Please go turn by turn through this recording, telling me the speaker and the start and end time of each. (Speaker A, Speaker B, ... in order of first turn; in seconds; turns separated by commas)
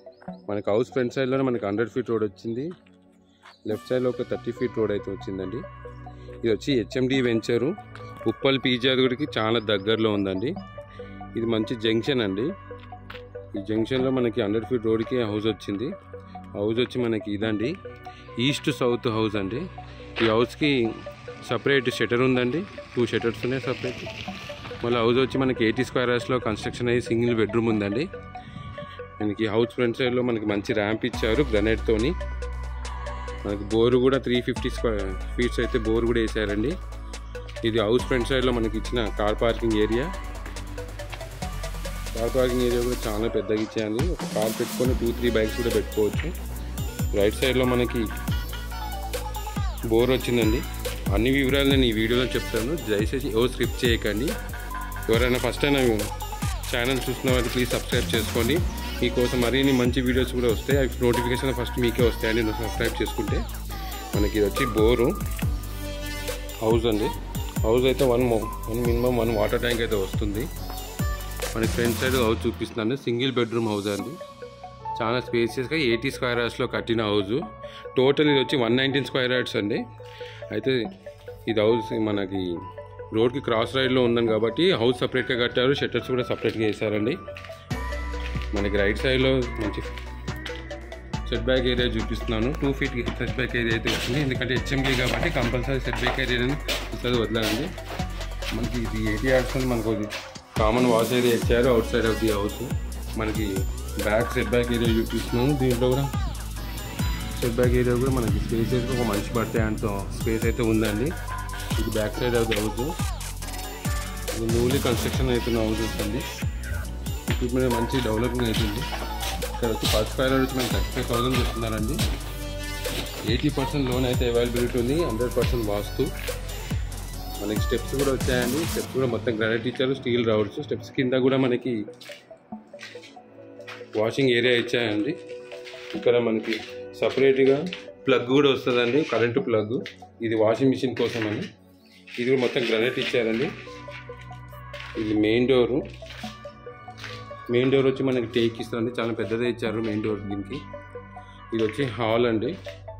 Speaker A: 0.5-2.7, Speaker A: 3.6-5.6, Speaker A: 6.4-10.5, Speaker A: 11.3-12.5, Speaker A: 13.5-15.9, Speaker A: 16.6-17.7, Speaker A: 18.4-19.7, Speaker A: 20.2-24.1, Speaker A: 24.8-28.1, Speaker A: 29.2-32.1, Speaker A: 33.4-36.8, Speaker A: 37.6-40.1, Speaker A: 42.1-46.3, Speaker A: 47.1-48.1, Speaker A: 49.9-54.3, Speaker A: 55.1-56.1, Speaker A: 56.6-63.4, Speaker A: 64.1-65.2, Speaker A: 66.6-70.5, Speaker A: 71.5-74.2, Speaker A: 74.9-77.4, Speaker A: 77.9-79.8, Speaker A: 80.5-80.8, Speaker A: 81.5-87.2, Speaker A: 88.5-89.9, Speaker A: 91.2-97.7, Speaker A: 98.5-106.1, Speaker A: 107.3-111.1, Speaker A: 111.8-113.0, Speaker A: 114.3-116.2, Speaker A: 117.3-118.9, Speaker A: 119.5-122.0, Speaker A: 123.2-126.1, Speaker A: 127.4-131.8, Speaker A: 133.9-135.2, Speaker A: 135.9-141.5, Speaker A: 142.2-143.5, Speaker A: 144.9-145.8, Speaker A: 147.5-150.6, Speaker A: 151.5-152.6